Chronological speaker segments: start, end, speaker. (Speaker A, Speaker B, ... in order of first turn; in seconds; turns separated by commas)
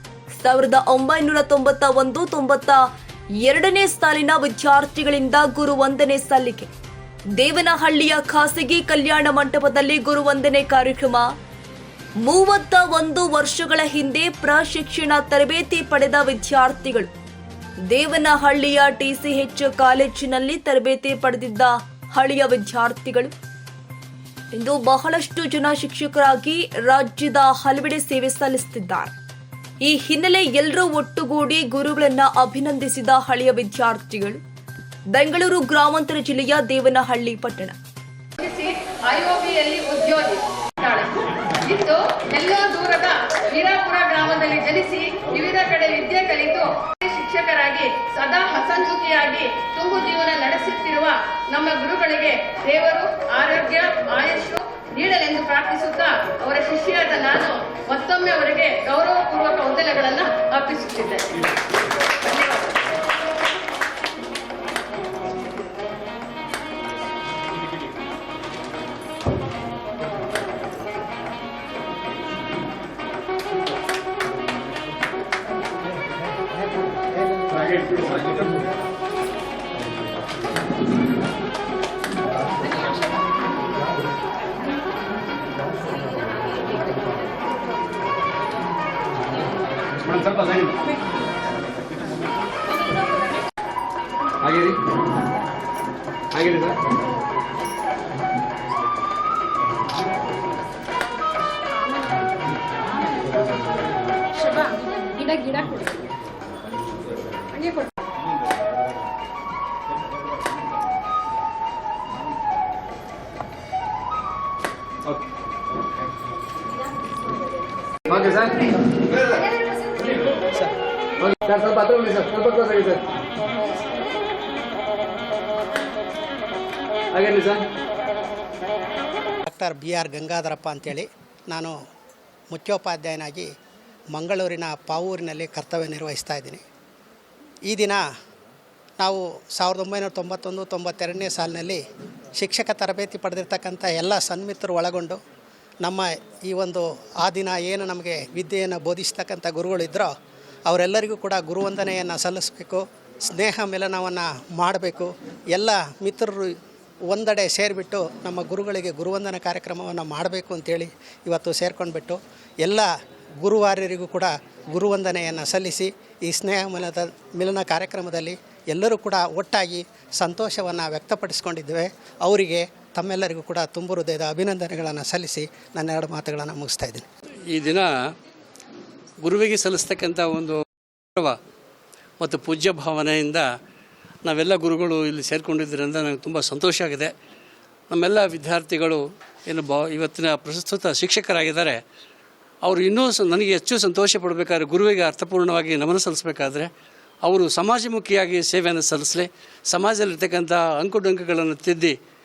Speaker A: 0.4-2.9, Speaker A: 3.4-6.7, Speaker A: 7.4-11.3, Speaker A: 12.2-17.1, Speaker A: 17.9-23.3, Speaker A: 24.5-29.1, Speaker A: 29.8-34.4, Speaker A: 35.1-37.8, Speaker B: 38.4-61.4, Speaker B: 62.0-62.8, Speaker C: 90.1-90.8, Speaker C: 94.4-94.8, Speaker D: 94.5-94.7, Speaker C: 96.3-96.8, Speaker C: 118.1-118.5, Speaker D: 118.1-118.6, Speaker C: 120.0-120.3, Speaker D: 121.2-122.8, Speaker C: 121.3-123.0, Speaker D: 127.1-127.6, Speaker C: 127.3-127.6, Speaker E: 129.5-131.8, Speaker E: 132.5-133.5, Speaker E: 134.1-136.6, Speaker E: 137.7-138.0, Speaker E: 139.0-141.8, Speaker E: 142.3-145.2, Speaker E: 145.8-150.1, Speaker E: 150.7-156.5, Speaker E: 157.1-162.9, Speaker E: 163.4-177.1, Speaker D: 177.5-177.9, Speaker D: 179.2-180.6, Speaker D: 182.2-183.4, Speaker D: 184.2-187.1, Speaker D: 187.9-191.8, Speaker D: 192.6-196.7, Speaker D: 197.2-202.0